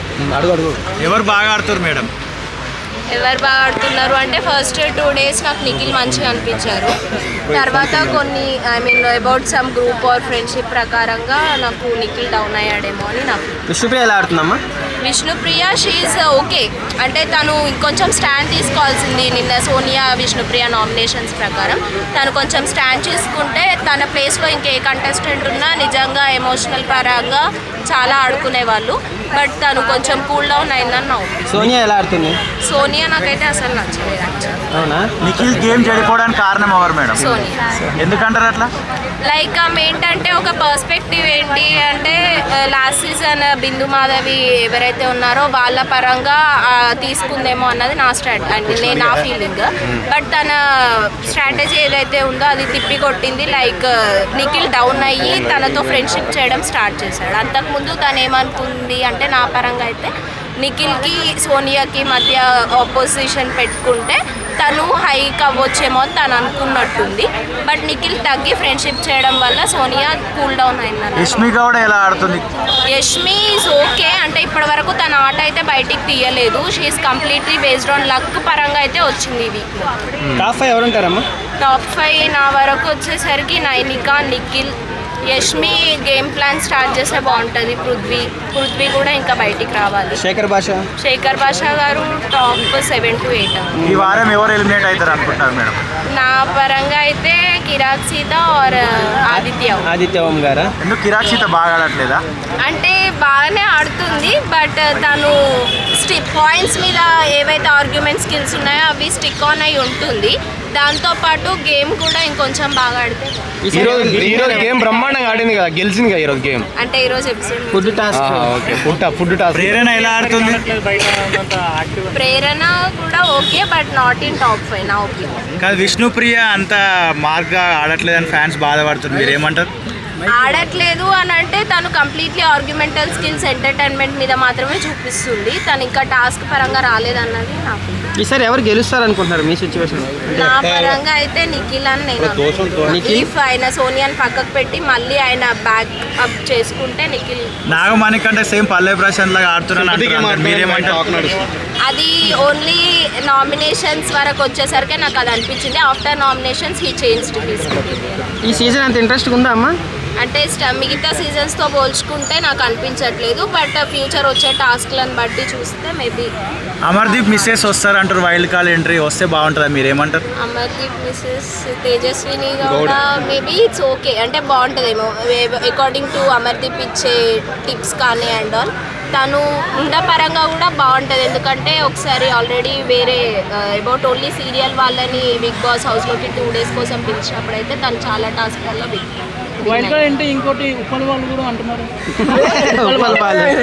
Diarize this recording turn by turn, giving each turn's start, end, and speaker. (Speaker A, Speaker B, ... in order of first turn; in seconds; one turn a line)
Speaker A: 0.3-0.7
Speaker B: 1.0-2.1
Speaker C: 3.1-6.9
Speaker C: 7.5-13.5
Speaker D: 13.7-14.6
Speaker C: 15.0-31.4
Speaker D: 31.5-32.4
Speaker C: 32.6-34.6
Speaker D: 34.7-35.1
Speaker B: 35.2-37.2
Speaker C: 37.2-37.6
Speaker B: 38.0-38.7
Speaker C: 39.2-71.4
Speaker B: 71.2-72.4
Speaker C: 72.9-79.8
Speaker B: 80.2-80.5
Speaker D: 80.4-81.2
Speaker C: 81.6-84.7
Speaker C: 85.3-90.2
Speaker D: 90.2-90.8
Speaker C: 91.0-93.8
Speaker D: 93.8-94.1
Speaker B: 93.8-95.8
Speaker C: 96.1-99.9
Speaker D: 99.3-100.7
Speaker B: 100.8-102.2
Speaker C: 102.6-113.3
Speaker D: 113.6-114.8
Speaker A: 113.7-116.7
Speaker C: 116.8-118.1
Speaker D: 117.7-118.6
Speaker A: 118.1-119.9
Speaker B: 119.5-120.7
Speaker E: 119.9-121.8
Speaker C: 122.1-125.3
Speaker B: 125.6-129.7
Speaker C: 130.3-138.1
Speaker D: 138.2-140.5
Speaker C: 140.3-147.9
Speaker A: 142.4-142.9
Speaker D: 142.9-143.3
Speaker B: 147.7-151.1
Speaker A: 149.7-151.4
Speaker C: 151.8-158.2
Speaker D: 158.4-159.7
Speaker C: 160.2-166.3
Speaker B: 166.8-170.2
Speaker C: 170.4-190.0
Speaker E: 189.7-193.5
Speaker D: 192.2-193.5